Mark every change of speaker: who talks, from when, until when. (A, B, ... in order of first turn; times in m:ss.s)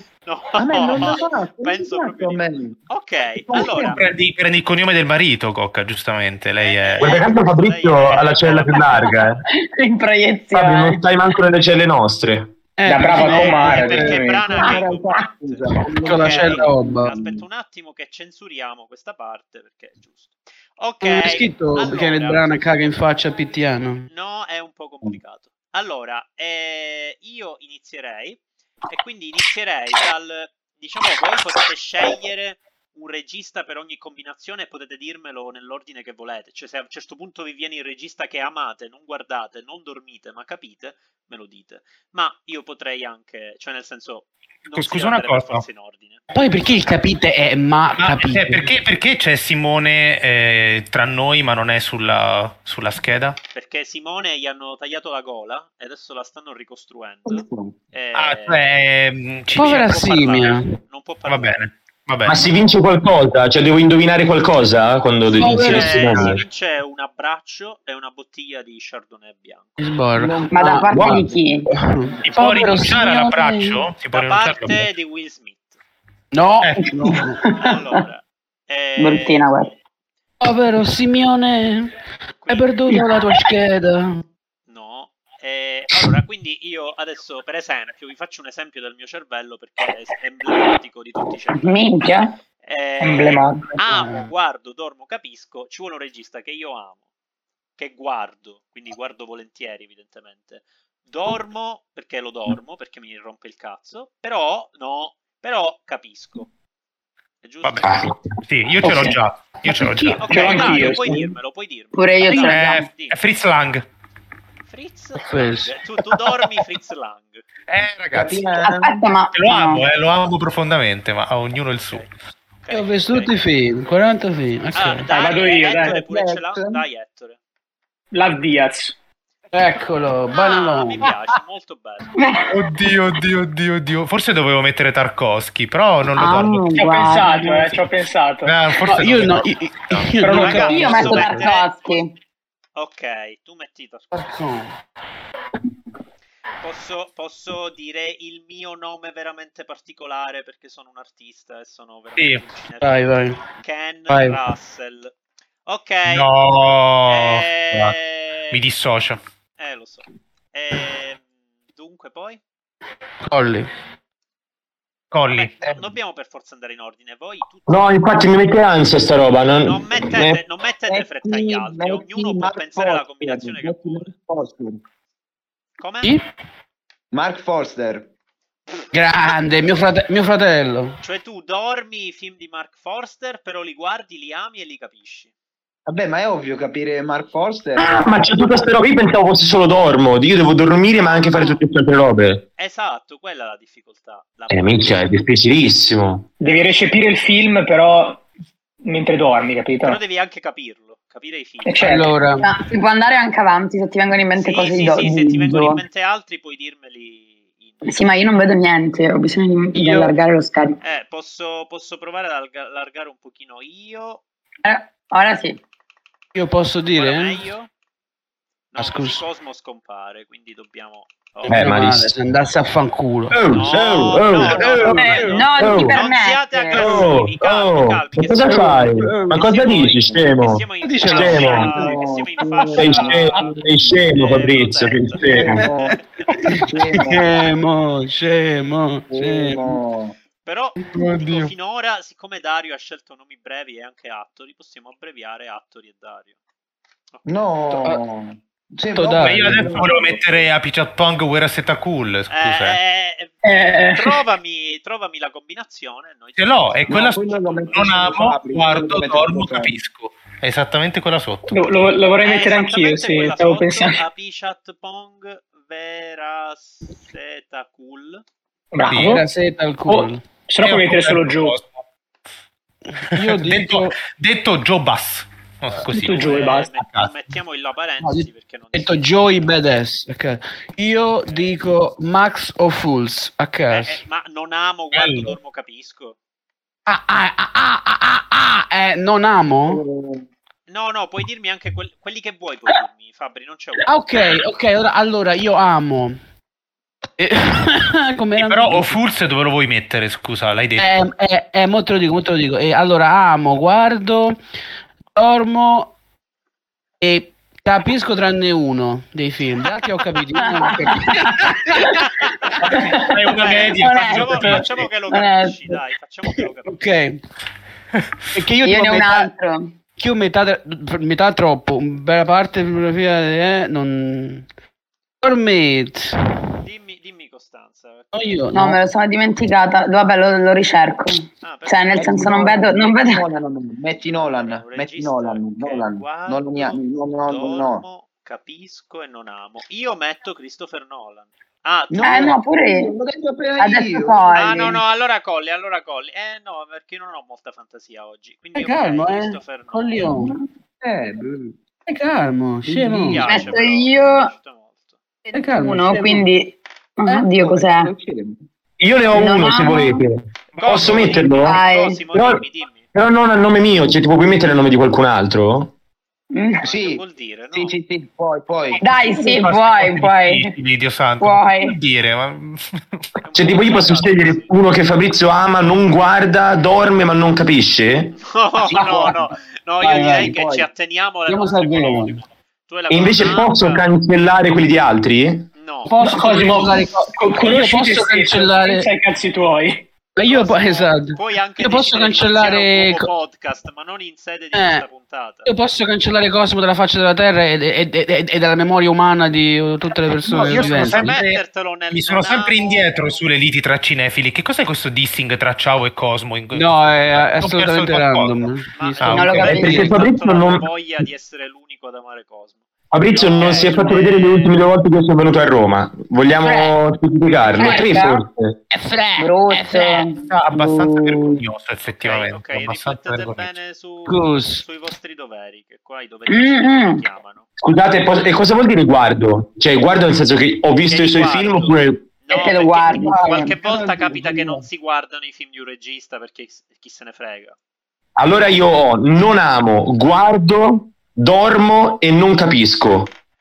0:00.2-0:04.0 A
0:00.6-0:02.8 B
0:03.3-0:04.1 B
0:03.8-0:07.3 C
0:06.6-0:09.3 A
0:07.0-0:09.4 D
0:08.8-0:11.0 E
0:10.5-0:12.5 D
0:12.8-0:14.2 F
0:12.8-0:14.6 G
0:13.1-0:22.8 A
0:14.6-0:16.7 B
0:15.8-0:17.3 F
0:21.0-0:24.1 F
0:24.1-0:46.2 A
0:44.7-0:45.6 C
0:46.3-0:48.7 F
0:48.0-0:53.4 C
0:53.5-0:58.6 A
0:57.3-0:57.8 B
0:58.1-0:59.9 C
0:59.5-1:00.7 F
0:59.6-1:01.7 A
1:01.2-1:02.4 C
1:02.2-1:06.4 D
1:05.4-1:06.3 F
1:05.4-1:09.8 A
1:09.8-1:13.8 F
1:10.1-1:11.0 B
1:10.5-1:11.7 E
1:10.9-1:11.2 D
1:12.1-1:12.4 B
1:12.2-1:14.9 C
1:14.1-1:15.8 A
1:16.3-1:17.4 F
1:16.6-1:17.0 C
1:17.0-1:18.0 E
1:17.1-1:19.8 A
1:19.0-1:19.7 E
1:20.4-1:21.9 F
1:22.4-1:22.7 A
1:22.5-1:24.2 F
1:24.7-1:37.0 A
1:31.6-1:32.4 E
1:33.0-1:33.7 G
1:33.8-1:34.3 F
1:37.8-1:46.5 A
1:47.4-1:48.0 A
1:47.6-1:51.2 C
1:47.8-1:48.2 D
1:48.8-1:49.2 G
1:49.8-1:51.3 G
1:50.2-1:53.2 A
1:51.9-1:52.9 E
1:52.3-1:53.8 C
1:54.6-1:57.4 A
1:55.2-1:55.7 F
1:57.7-1:58.4 C
1:58.1-1:59.0 B
1:58.6-1:59.8 E
1:59.3-2:02.1 C
2:02.6-2:03.4 A
2:02.7-2:05.1 F
2:04.7-2:07.4 A
2:05.1-2:06.0 G
2:05.8-2:06.8 B
2:08.1-2:09.0 G
2:09.5-2:11.1 F
2:10.3-2:12.2 A
2:12.2-2:12.7 E
2:12.5-2:16.7 C
2:16.2-2:17.8 E
2:16.7-2:18.6 G
2:18.4-2:20.2 C
2:18.8-2:21.2 F
2:20.2-2:20.9 G
2:20.2-2:22.0 A
2:20.6-2:22.1 E
2:21.1-2:21.4 C
2:22.8-2:24.5 A
2:24.1-2:24.7 F
2:26.6-2:35.1 A
2:32.2-2:32.4 C
2:32.8-2:33.4 F
2:34.1-2:34.4 F
2:35.7-2:36.3 A
2:36.0-2:37.9 C
2:37.1-2:38.6 A
2:38.5-2:39.2 C
2:39.6-2:42.4 A
2:43.3-2:43.7 F
2:45.1-2:45.5 C
2:45.3-2:48.0 A
2:47.7-2:50.4 D
2:49.6-2:54.1 A
2:50.9-2:54.8 B
2:55.8-2:56.1 A
2:57.1-2:58.1 B
2:58.9-3:01.0 F
3:01.0-3:05.3 A
3:05.9-3:08.6 B
3:07.8-3:12.4 D
3:11.0-3:11.6 A
3:12.6-3:15.1 A
3:14.5-3:16.3 D
3:16.4-3:18.2 G
3:16.4-3:17.2 A
3:18.8-3:20.0 G
3:19.8-3:22.2 A
3:21.6-3:22.1 G
3:21.8-3:22.4 F
3:22.4-3:25.8 E
3:24.3-3:27.9 A
3:27.8-3:30.8 E
3:29.7-3:30.1 F
3:30.8-3:34.2 A
3:34.6-3:35.6 E
3:36.3-3:37.4 F
3:37.0-3:37.7 A
3:38.7-3:41.8 A
3:38.8-3:39.2 F
3:41.4-3:43.4 F
3:41.5-3:42.1 D
3:43.3-3:46.0 D
3:43.5-3:56.0 A
3:44.4-3:45.4 F
3:44.8-3:47.0 E
3:46.7-3:51.7 D
3:48.5-3:50.2 B
3:50.8-3:52.0 F
3:51.0-3:51.7 C
3:51.7-3:53.8 B
3:52.8-3:55.6 D
3:55.2-3:55.7 F
3:55.3-3:56.0 B
3:56.3-3:59.8 F
3:56.5-3:57.4 B
3:59.1-4:00.2 B
4:00.4-4:06.3 A
4:00.9-4:01.5 F
4:01.0-4:01.3 C
4:07.1-4:07.8 A
4:07.2-4:10.4 B
4:08.9-4:09.7 F
4:09.2-4:12.8 C
4:12.3-4:13.3 A
4:13.4-4:14.2 G
4:13.9-4:18.1 A
4:16.4-4:21.5 C
4:16.9-4:19.7 B
4:21.5-4:24.0 G
4:22.2-4:28.2 A
4:28.7-4:29.2 G
4:28.9-4:29.2 C
4:29.0-4:30.2 F
4:29.9-4:31.6 G
4:30.6-4:31.8 C
4:33.1-4:34.0 F
4:33.1-4:37.1 C
4:35.9-4:36.7 G
4:36.0-4:39.5 A
4:38.0-4:44.0 F
4:43.7-4:46.2 A
4:44.9-4:45.3 C
4:46.9-4:49.8 F
4:49.7-4:50.2 B
4:50.7-4:54.3 A
4:53.8-4:56.2 F
4:57.2-4:59.0 F
4:58.4-5:00.9 C
5:00.8-5:04.4 F
5:05.1-5:05.9 F
5:07.0-5:12.0 F
5:10.6-5:12.0 E
5:12.4-5:12.8 A
5:12.6-5:14.9 C
5:12.6-5:15.8 E
5:13.3-5:16.8 A
5:16.6-5:17.2 F
5:18.3-5:19.3 F
5:18.6-5:19.7 E
5:20.0-5:24.4 F
5:25.2-5:26.2 F
5:26.6-5:28.2 A
5:28.1-5:28.8 F
5:28.5-5:33.2 E
5:31.4-5:32.3 A
5:31.9-5:37.8 B
5:34.1-5:42.4 A
5:41.9-5:44.8 B
5:42.0-5:42.9 E
5:43.6-5:44.8 E
5:44.3-5:50.1 A
5:48.5-5:50.3 F
5:50.1-5:51.5 B
5:51.8-5:53.3 F
5:52.6-5:53.5 B
5:53.0-5:55.0 A
5:53.2-5:54.3 E
5:55.3-5:57.9 E
5:55.3-5:56.3 F
5:57.3-5:58.4 B
5:58.8-6:01.6 D
5:59.1-6:00.0 E
6:00.5-6:02.9 A
6:01.3-6:02.0 E
6:02.1-6:05.7 D
6:06.3-6:06.6 E
6:06.6-6:07.8 A
6:06.6-6:09.0 B
6:08.8-6:10.5 E
6:09.2-6:13.0 C
6:11.2-6:11.8 E
6:13.2-6:14.5 A
6:13.3-6:18.2 D
6:18.2-6:23.8 A
6:18.7-6:19.2 F
6:19.8-6:20.7 F
6:21.3-6:22.2 F
6:22.9-6:25.5 D
6:25.5-6:25.9 A
6:25.8-6:28.9 F
6:26.0-6:29.9 G
6:30.2-6:33.1 F
6:30.3-6:35.5 A
6:34.5-6:34.8 F
6:35.4-6:41.1 F
6:40.3-6:48.5 C
6:40.3-6:42.9 A
6:46.5-6:49.9 F
6:48.8-6:54.6 A
6:49.0-6:49.7 C
6:49.1-6:50.1 E
6:49.4-6:50.6 D
6:52.9-6:58.6 D
6:56.4-6:56.7 F
6:57.6-6:58.2 E
6:58.7-7:00.1 F
6:59.2-7:01.4 E
7:00.3-7:03.5 C
7:02.0-7:07.4 A
7:04.0-7:04.6 F
7:06.3-7:07.0 E
7:07.6-7:12.0 D
7:10.8-7:17.6 A
7:12.3-7:13.5 E
7:13.0-7:14.6 F
7:18.2-7:23.1 D